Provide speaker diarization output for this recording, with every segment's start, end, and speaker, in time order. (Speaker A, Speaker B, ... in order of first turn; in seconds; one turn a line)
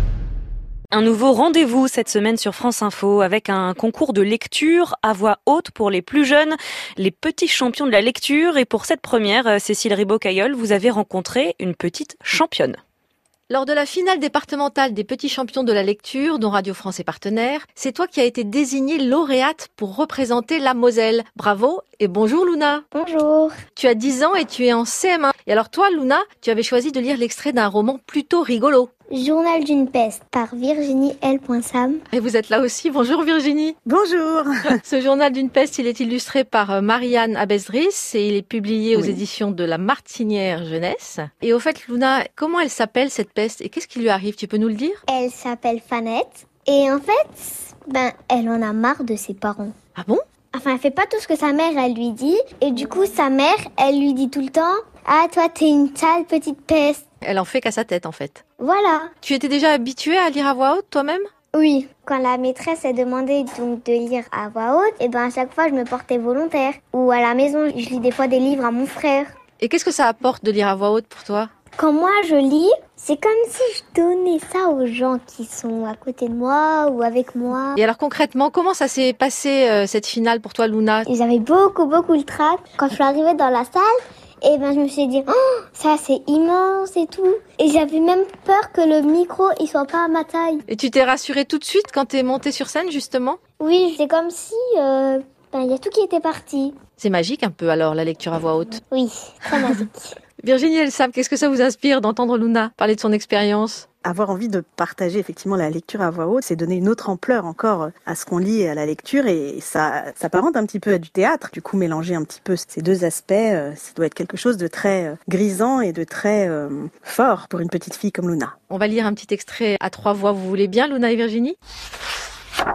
Speaker A: 0.9-12.8
Speaker B: 13.5-22.8
Speaker C: 22.9-23.6
Speaker B: 23.7-28.9
Speaker C: 29.1-32.0
Speaker B: 32.1-33.8
Speaker D: 33.9-34.8
Speaker B: 34.8-45.0
Speaker D: 39.0-39.2
Speaker C: 45.1-49.7
Speaker B: 50.0-50.2
Speaker C: 50.5-57.0
Speaker B: 57.2-58.4
Speaker C: 58.6-59.1
Speaker B: 59.2-61.3
Speaker C: 61.5-69.3
Speaker B: 69.6-71.5
Speaker C: 71.8-77.8
Speaker B: 77.7-81.1
Speaker C: 81.1-90.6
Speaker B: 90.7-93.4
Speaker C: 93.6-96.8
Speaker B: 97.0-98.8
Speaker C: 98.9-100.2
Speaker B: 100.4-103.8
Speaker D: 104.0-118.5
Speaker B: 118.7-121.6